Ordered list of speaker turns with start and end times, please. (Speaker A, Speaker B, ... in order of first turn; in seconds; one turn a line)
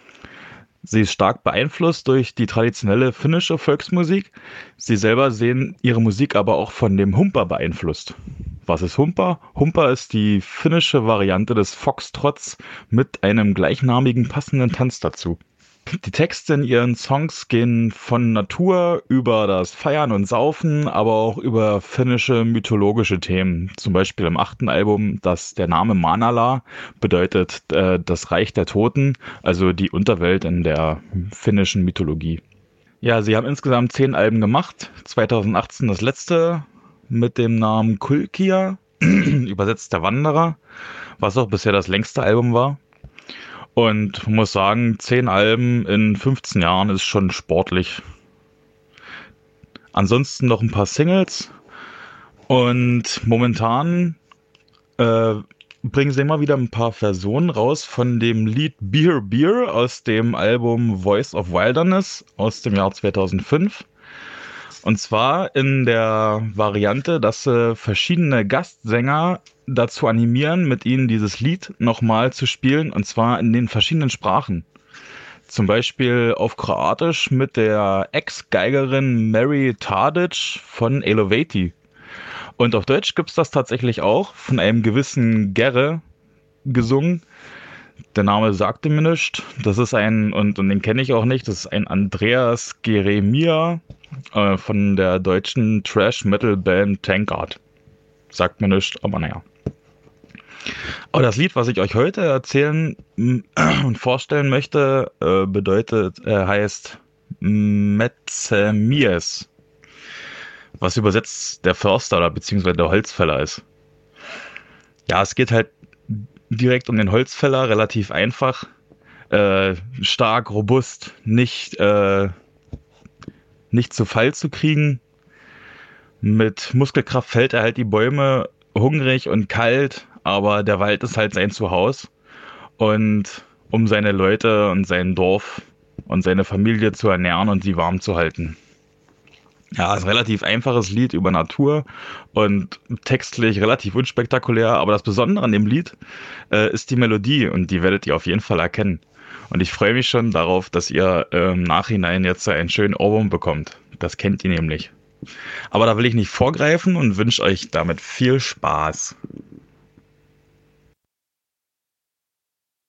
Speaker A: 0.8-32.4
Speaker A: 33.0-40.6
Speaker A: 41.2-42.8
Speaker A: 43.7-48.0
Speaker A: 49.9-51.5
Speaker A: 52.5-54.2
Speaker A: 55.0-63.9
Speaker A: 64.8-74.7
Speaker A: 75.5-81.7
Speaker A: 82.6-86.0
Speaker A: 86.6-87.2
Speaker A: 88.1-93.8
Speaker A: 94.3-97.6
Speaker A: 98.3-99.4
Speaker A: 101.1-109.5
Speaker A: 110.8-113.6
Speaker A: 115.1-118.7
Speaker A: 119.3-122.3
Speaker A: 123.7-125.0
Speaker A: 126.2-132.1
Speaker A: 132.8-138.6
Speaker A: 139.7-145.9
Speaker A: 146.5-154.9
Speaker A: 155.7-159.1